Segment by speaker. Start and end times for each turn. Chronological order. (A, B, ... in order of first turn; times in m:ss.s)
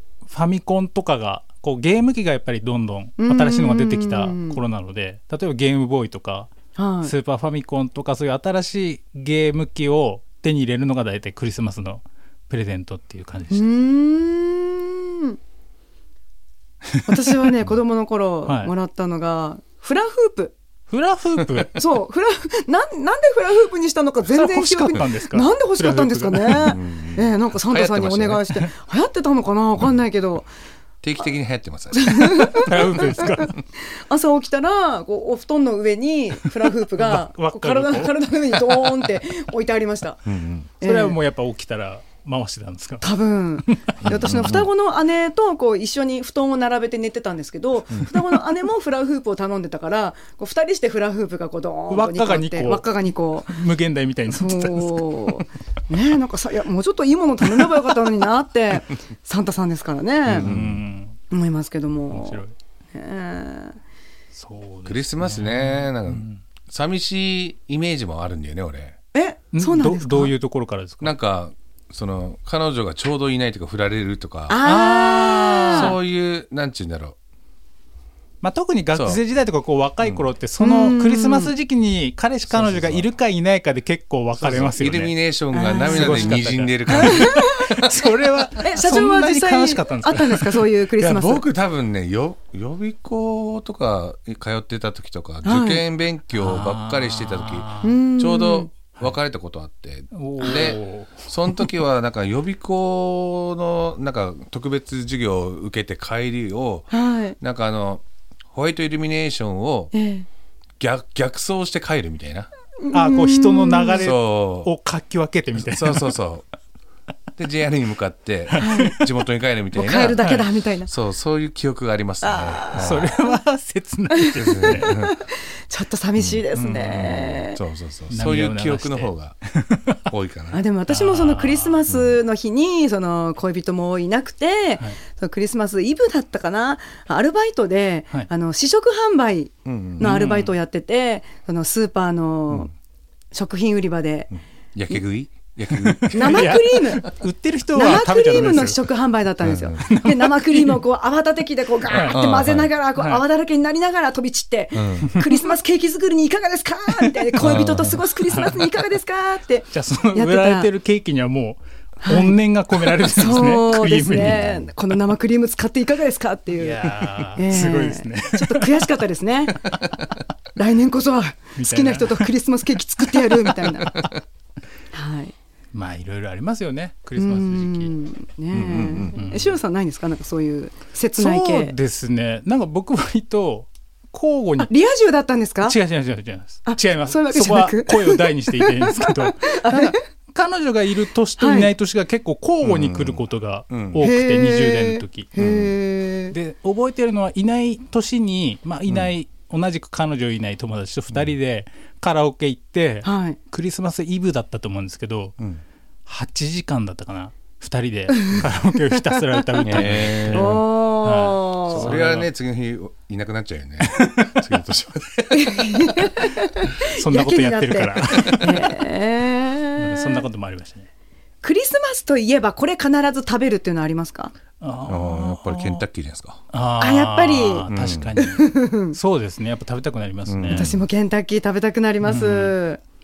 0:00.2-0:06.5 A
0:03.2-0:04.6 B
0:06.8-0:07.1 B
0:07.0-0:13.6 A
0:13.5-0:15.4 B
0:17.0-0:20.5 B
0:18.4-0:18.7 A
0:20.9-0:21.8 A
0:21.7-0:30.5 B
0:24.3-0:26.8 A
0:26.5-0:28.4 C
0:31.0-0:32.0 C
0:31.9-0:40.2 B
0:32.5-0:33.5 A
0:36.9-0:38.9 A
0:40.2-0:40.7 C
0:40.8-0:41.2 B
0:40.8-0:44.3 A
0:43.0-0:53.5 B
0:44.0-0:44.7 C
0:51.9-0:55.4 A
0:54.3-1:00.5 B
1:00.3-1:01.2 A
1:00.4-1:00.8 C
1:01.3-1:03.8 B
1:02.1-1:02.6 A
1:04.3-1:06.4 A
1:04.8-1:09.0 C
1:09.1-1:10.3 B
1:09.5-1:11.1 A
1:11.0-1:14.6 C
1:14.5-1:15.9 B
1:14.6-1:16.0 A
1:15.7-1:17.2 C
1:18.4-1:25.1 A
1:18.9-1:19.2 C
1:20.0-1:20.3 C
1:20.6-1:21.5 B
1:22.5-1:23.1 C
1:24.4-1:27.5 C
1:25.5-1:26.4 B
1:25.8-1:30.6 A
1:27.0-1:27.7 B
1:28.6-1:31.4 B
1:31.0-1:49.9 C
1:35.4-1:35.8 B
1:36.3-1:38.0 A
1:37.8-1:38.7 B
1:40.1-1:41.2 A
1:40.4-1:40.8 B
1:46.9-1:47.4 B
1:49.9-1:50.3 B
1:50.8-1:52.5 C
1:52.8-1:54.1 B
1:52.9-1:56.1 A
1:54.0-1:54.7 C
1:55.6-1:56.5 C
1:57.4-2:00.2 C
1:58.5-1:59.0 A
1:58.6-1:59.0 B
1:59.7-2:00.9 B
2:00.2-2:00.4 A
2:00.9-2:03.1 C
2:02.2-2:03.0 B
2:02.7-2:04.9 A
2:04.2-2:07.6 B
2:04.4-2:05.2 C
2:06.2-2:09.4 C
2:06.5-2:07.1 A
2:08.1-2:10.0 A
2:10.1-2:10.6 C
2:10.5-2:22.7 B
2:10.9-2:11.8 A
2:11.9-2:12.1 C
2:19.6-2:20.1 C
2:20.0-2:20.5 A
2:23.3-2:24.3 B
2:24.3-2:26.5 C
2:25.8-2:28.8 A
2:26.1-2:27.0 B
2:27.7-2:40.7 B
2:29.4-2:29.8 C
2:29.8-2:30.8 A
2:31.9-2:32.2 A
2:32.0-2:32.7 C
2:33.0-2:33.2 A
2:34.7-2:35.1 C
2:37.4-2:38.0 C
2:38.3-2:38.7 A
2:39.7-2:44.5 A
2:42.0-2:42.4 B
2:43.0-2:49.6 B
2:44.2-2:44.7 C
2:46.6-2:48.8 A
2:50.6-2:53.9 B
2:51.6-2:52.3 A
2:54.9-2:55.3 B
2:55.7-2:57.9 A
2:57.2-3:01.7 B
2:58.5-2:59.2 C
2:59.1-2:59.6 A
3:01.2-3:04.7 A
3:04.6-3:05.8 B
3:05.6-3:15.3 A
3:06.6-3:10.0 B
3:11.4-3:11.7 B
3:12.6-3:14.0 C
3:14.0-3:16.3 B
3:15.4-3:15.7 C
3:16.3-3:25.4 A
3:23.0-3:23.4 B
3:26.0-3:30.5 A
3:29.6-3:30.6 C
3:30.3-3:31.9 B
3:31.0-3:32.3 A
3:31.7-3:35.7 C
3:33.8-3:34.4 A
3:35.3-3:40.2 B
3:36.8-3:38.8 A
3:39.8-3:40.9 A
3:41.4-3:44.3 B
3:44.6-3:45.8 A
3:44.8-3:46.4 C
3:46.5-3:50.7 A
3:46.8-3:47.7 B
3:47.7-3:48.1 C
3:48.2-3:49.0 B
3:50.2-3:50.8 C
3:50.5-3:52.8 B
3:52.0-3:52.5 A